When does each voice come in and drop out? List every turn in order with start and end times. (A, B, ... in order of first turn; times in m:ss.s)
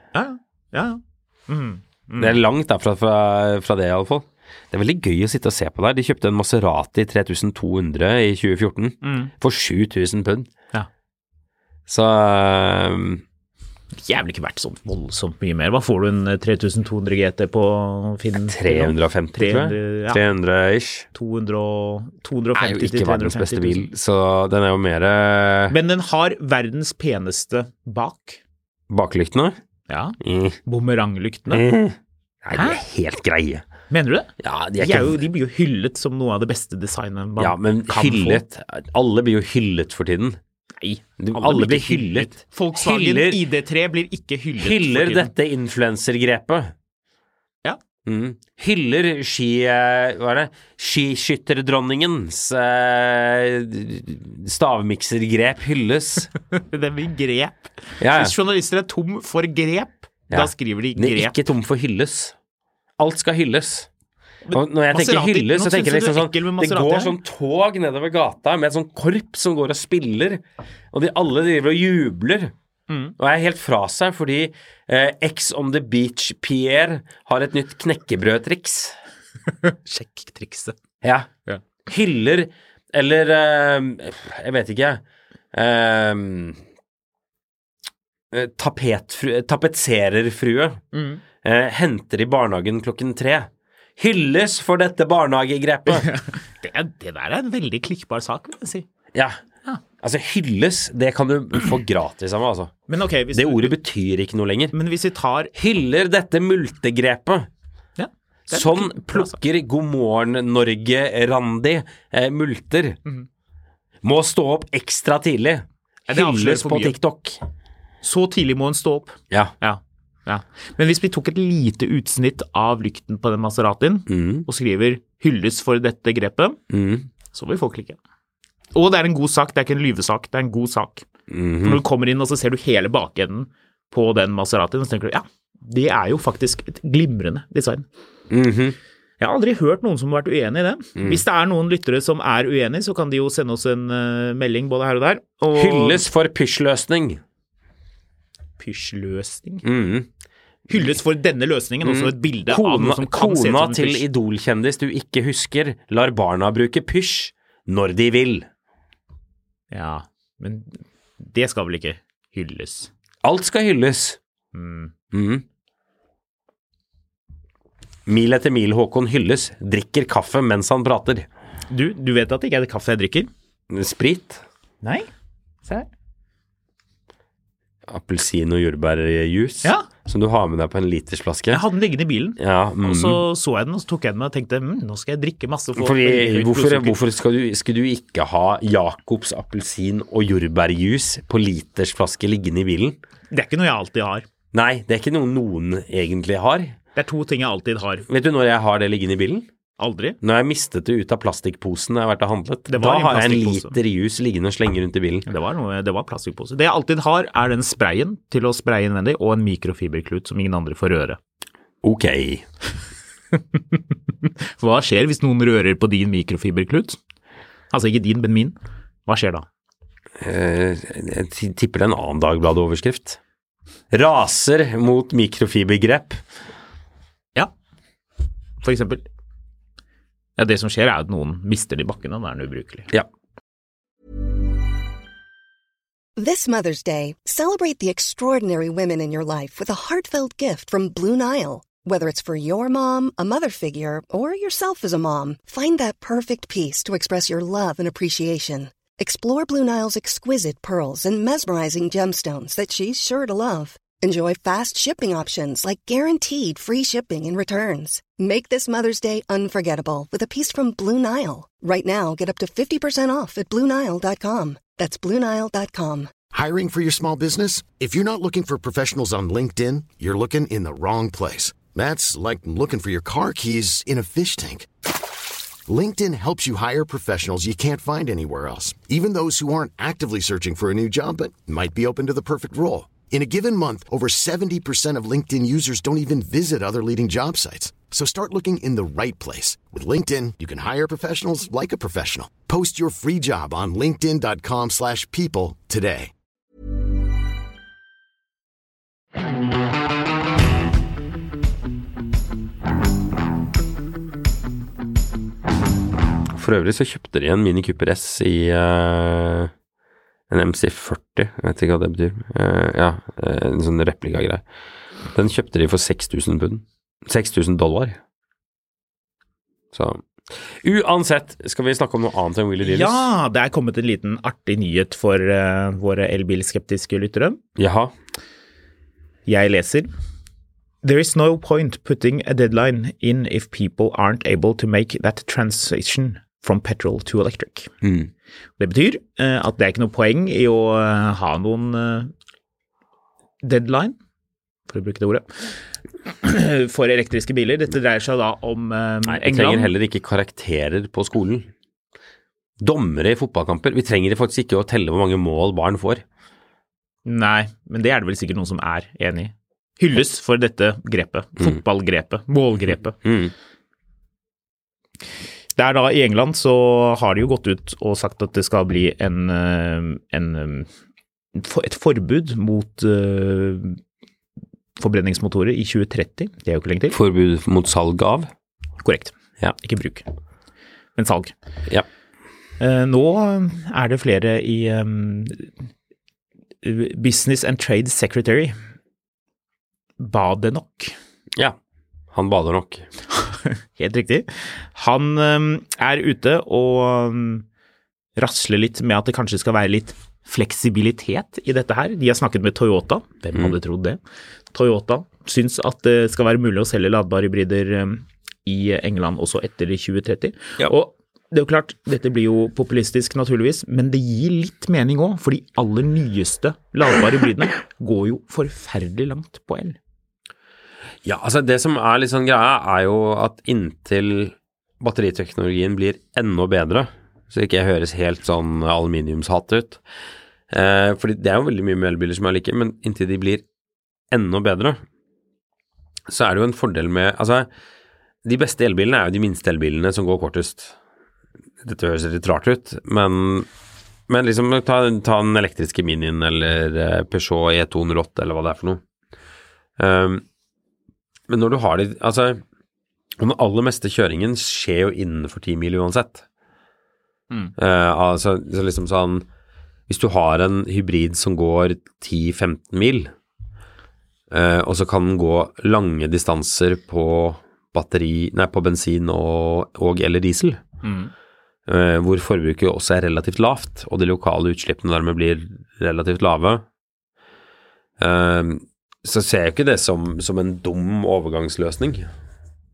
0:00.1-0:02.4 A
0:02.2-0:10.5 B
0:09.0-0:09.3 A
0:11.9-0:13.2 B
0:14.0-0:20.2 A
0:18.5-0:21.1 B
0:21.1-0:23.8 A
0:22.6-0:25.8 B
0:25.7-0:28.4 A
0:28.9-0:29.6 B
0:29.9-0:31.6 A
0:30.2-0:30.6 B
0:31.5-0:33.6 B
0:32.5-0:32.8 A
0:33.9-0:38.4 A
0:34.4-0:35.2 B
0:37.4-0:40.4 B
0:40.8-0:45.3 A
0:41.2-0:43.4 B
0:44.6-0:46.7 B
0:48.1-0:56.3 B
0:56.5-1:01.3 A
0:58.0-0:58.4 B
1:00.3-1:02.3 B
1:03.0-1:03.9 B
1:04.5-1:07.2 A
1:04.5-1:12.5 B
1:12.9-1:13.1 A
1:13.2-1:19.0 B
1:19.6-1:20.8 A
1:21.0-1:21.3 B
1:21.9-1:25.0 B
1:25.5-1:26.6 B
1:28.3-1:30.8 B
1:30.9-1:31.2 A
1:31.4-1:36.1 B
1:35.9-1:38.9 A
1:40.0-1:42.7 B
1:42.9-1:43.7 A
1:43.3-1:44.8 B
1:44.7-1:45.5 A
1:45.6-1:47.5 B
1:48.0-1:49.4 A
1:48.5-1:53.0 B
1:54.0-1:57.4 B
1:56.1-1:57.0 A
1:58.0-2:06.6 A
2:04.1-2:04.5 B
2:06.7-2:07.1 B
2:07.3-2:08.0 A
2:08.8-2:11.0 A
2:11.3-2:11.8 B
2:11.6-2:17.8 A
2:18.3-2:18.8 B
2:19.2-2:26.1 A
2:25.5-2:27.2 B
2:28.6-2:29.6 A
2:29.6-2:30.1 B
2:30.7-2:34.0 A
2:31.8-2:38.5 B
2:39.7-2:42.9 A
2:43.2-2:44.2 B
2:44.5-2:44.9 A
2:45.1-2:45.4 B
2:48.1-2:51.3 B
2:51.7-2:53.3 A
2:53.7-2:54.4 B
2:54.8-2:55.1 A
2:57.9-3:01.6 B
3:01.5-3:07.0 A
3:02.4-3:03.2 B
3:05.8-3:13.0 B
3:13.3-3:14.3 A
3:14.5-3:16.8 B
3:17.0-3:18.0 A
3:18.1-3:19.5 B
3:19.8-3:20.2 A
3:20.2-3:25.3 B
3:22.7-3:23.8 A
3:25.3-3:31.2 A
3:31.8-3:32.4 B
3:33.4-3:37.0 A
3:37.7-3:38.6 A
3:39.1-3:39.4 A
3:40.2-3:43.2 B
3:43.9-3:46.2 B
3:48.6-3:49.0 A
3:50.4-3:52.9 A
3:56.2-4:26.1 C
4:26.3-4:34.7 D
4:35.7-4:56.1 D
5:06.3-5:09.5 B
5:10.3-5:14.4 B
5:15.1-5:18.0 B
5:19.7-5:23.1 B
5:22.6-5:27.4 A
5:27.6-5:27.9 B
5:29.3-5:29.9 A
5:30.8-5:37.7 A
5:37.8-5:38.1 B
5:38.6-5:42.1 A
5:43.4-5:44.0 A
5:44.7-5:45.3 A
5:46.1-5:49.7 A
5:49.1-5:51.5 B
5:52.6-5:56.0 B
5:57.0-6:03.0 A
6:03.0-6:03.3 B
6:05.6-6:10.7 A
6:11.4-6:13.8 A
6:14.8-6:17.0 A
6:16.9-6:18.3 B
6:18.8-6:20.0 A
6:21.0-6:21.3 A
6:22.6-6:25.5 A
6:26.6-6:28.6 A
6:30.0-6:31.0 A
6:32.1-6:32.9 B
6:33.8-6:37.4 A
6:38.2-6:44.0 A
6:44.5-6:59.8 A
7:01.0-7:09.8 B
7:10.5-7:13.4 B
7:14.1-7:14.8 B
7:16.1-7:17.5 B
7:18.2-7:20.8 B
7:21.6-7:23.5 B
7:24.1-7:28.8 B
7:29.8-7:30.2 B
7:31.3-7:32.4 B
7:33.2-7:36.2 B
7:37.6-7:39.3 B
7:39.9-7:43.1 B
7:44.3-7:50.6 B
7:50.8-7:51.1 A
7:51.7-7:56.6 B
7:58.0-8:02.1 B